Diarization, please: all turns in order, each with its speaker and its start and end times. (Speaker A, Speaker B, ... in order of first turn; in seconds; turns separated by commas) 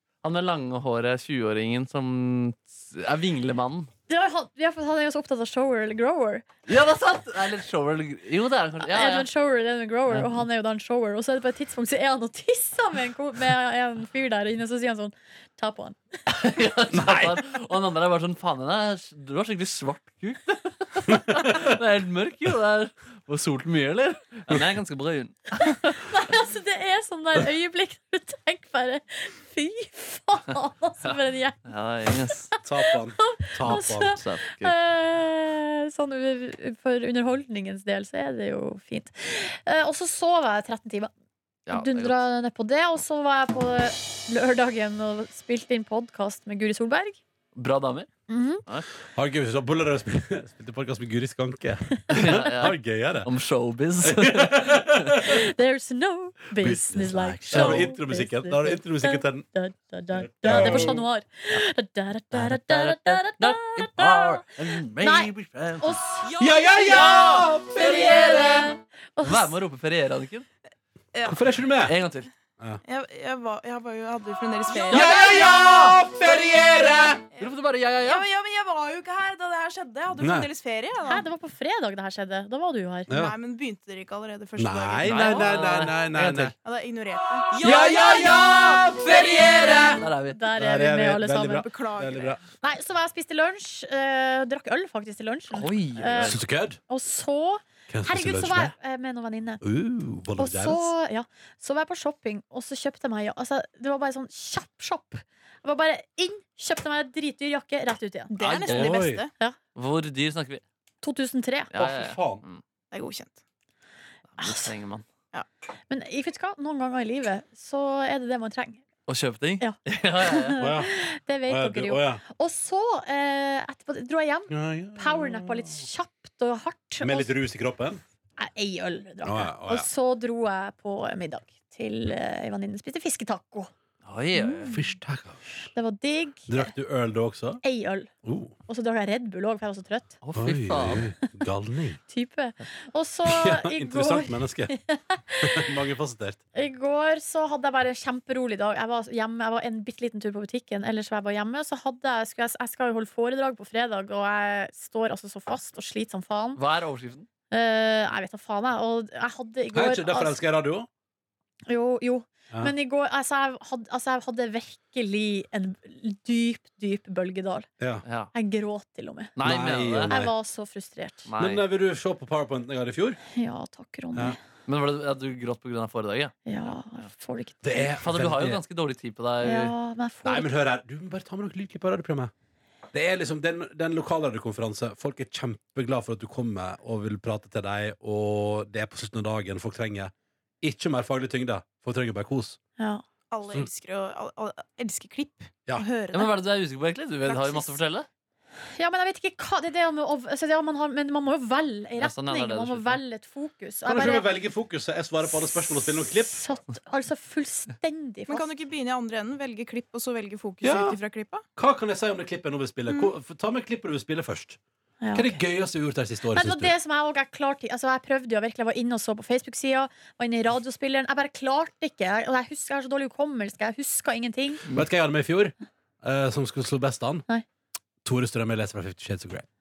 Speaker A: 0.2-3.9, Speaker B: 4.1-6.5, Speaker A: 6.7-9.3, Speaker B: 8.8-16.0, Speaker A: 10.1-10.4, Speaker A: 16.3-26.1, Speaker C: 16.9-17.4, Speaker C: 21.1-21.6, Speaker B: 25.6-31.6, Speaker A: 31.7-32.5, Speaker B: 32.5-41.1, Speaker C: 32.6-34.2, Speaker A: 33.6-34.7, Speaker A: 41.6-42.2, Speaker B: 41.7-47.2, Speaker A: 47.5-48.1, Speaker B: 48.3-48.6, Speaker C: 49.1-53.3, Speaker A: 52.1-55.1, Speaker C: 54.0-55.4, Speaker B: 55.2-66.3, Speaker C: 56.6-59.5, Speaker A: 57.5-57.9, Speaker C: 60.2-61.0, Speaker A: 60.5-61.0, Speaker A: 62.3-66.0, Speaker D: 66.4-67.4, Speaker C: 66.4-68.7, Speaker A: 67.8-68.7, Speaker B: 67.8-69.5, Speaker A: 69.2-70.5, Speaker D: 71.1-71.4, Speaker C: 71.2-71.9, Speaker A: 71.8-72.3, Speaker D: 72.8-75.6, Speaker A: 74.9-76.0, Speaker C: 74.9-77.2, Speaker D: 77.3-81.3, Speaker A: 77.4-78.2, Speaker C: 80.2-80.5, Speaker B: 81.0-83.1, Speaker C: 83.1-83.3, Speaker D: 83.1-85.5, Speaker C: 84.6-86.5, Speaker A: 85.0-86.5, Speaker D: 86.6-88.4, Speaker A: 87.6-88.1, Speaker C: 87.6-90.0, Speaker D: 89.1-89.9, Speaker A: 89.8-90.4, Speaker B: 90.3-91.7, Speaker C: 90.6-92.4, Speaker D: 91.6-92.4, Speaker B: 92.6-96.4, Speaker A: 95.5-96.4, Speaker C: 96.2-96.8, Speaker B: 96.9-99.6, Speaker C: 97.9-98.7, Speaker C: 99.6-100.9, Speaker B: 100.4-108.3, Speaker D: 108.3-109.3, Speaker C: 108.4-109.2, Speaker A: 108.7-109.1, Speaker A: 109.7-110.6, Speaker B: 111.0-111.7, Speaker A: 111.7-112.6, Speaker C: 111.7-112.4, Speaker D: 112.9-113.4, Speaker A: 114.3-115.0, Speaker B: 114.4-114.7, Speaker B: 115.9-118.8, Speaker A: 119.1-120.7, Speaker B: 119.6-127.3, Speaker C: 120.6-120.9, Speaker C: 121.5-122.2, Speaker C: 124.5-125.8, Speaker C: 127.0-128.0, Speaker B: 128.4-133.7, Speaker C: 129.2-129.9, Speaker A: 134.1-134.7, Speaker B: 134.3-134.9, Speaker C: 134.7-135.4, Speaker B: 135.7-136.7, Speaker C: 136.5-137.6, Speaker B: 137.6-138.1, Speaker C: 138.2-138.5, Speaker B: 138.7-140.1, Speaker A: 140.2-141.1, Speaker C: 140.3-142.0, Speaker B: 142.1-145.7, Speaker C: 143.3-144.7, Speaker C: 145.4-146.4, Speaker B: 146.6-156.6, Speaker A: 156.6-157.3, Speaker B: 157.5-160.4, Speaker C: 159.7-160.9, Speaker B: 161.7-167.7, Speaker A: 168.1-168.3, Speaker B: 168.3-169.3, Speaker A: 169.4-170.2, Speaker C: 169.4-170.3, Speaker B: 170.1-171.3, Speaker A: 171.3-171.6, Speaker C: 171.4-173.2, Speaker B: 173.3-174.4, Speaker A: 174.7-176.4, Speaker B: 176.5-178.0, Speaker C: 177.6-178.6, Speaker A: 178.0-179.7, Speaker B: 179.4-180.5, Speaker C: 180.2-182.3, Speaker C: 182.9-192.6, Speaker D: 193.3-196.3, Speaker A: 196.1-198.1, Speaker D: 197.3-197.8, Speaker B: 198.8-204.3, Speaker A: 202.0-203.0, Speaker C: 203.8-206.4, Speaker B: 205.3-208.5, Speaker D: 208.3-211.4, Speaker C: 210.6-211.0, Speaker C: 211.6-214.6, Speaker B: 215.0-215.4, Speaker C: 215.1-216.7, Speaker B: 216.3-224.7, Speaker C: 224.7-227.3, Speaker C: 228.0-229.5